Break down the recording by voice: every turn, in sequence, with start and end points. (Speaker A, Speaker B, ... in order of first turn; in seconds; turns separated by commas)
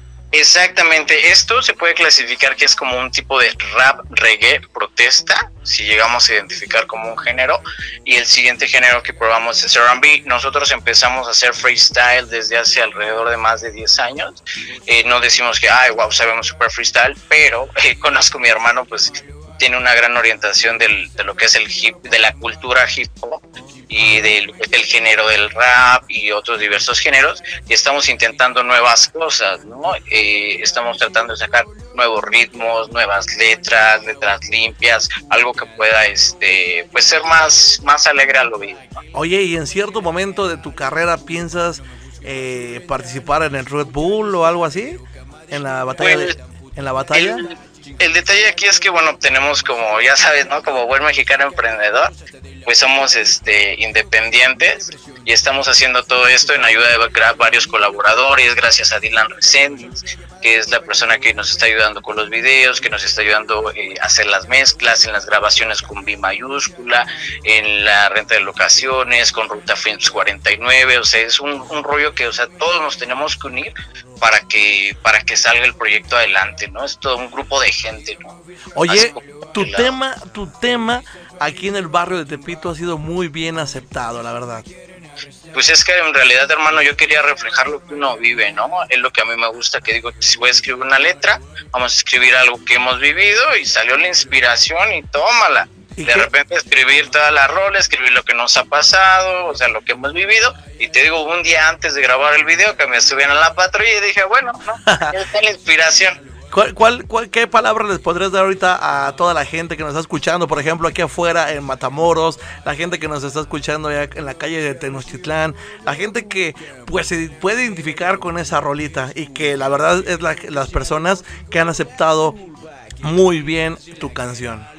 Speaker A: 0.3-39.0, Speaker B: 39.1-47.5, Speaker A: 46.0-46.4, Speaker A: 47.1-52.1, Speaker A: 52.7-78.3, Speaker B: 78.8-84.7, Speaker A: 78.9-80.0, Speaker A: 85.5-106.2, Speaker B: 96.0-96.3, Speaker B: 104.8-105.1, Speaker B: 106.5-122.4, Speaker B: 123.0-124.7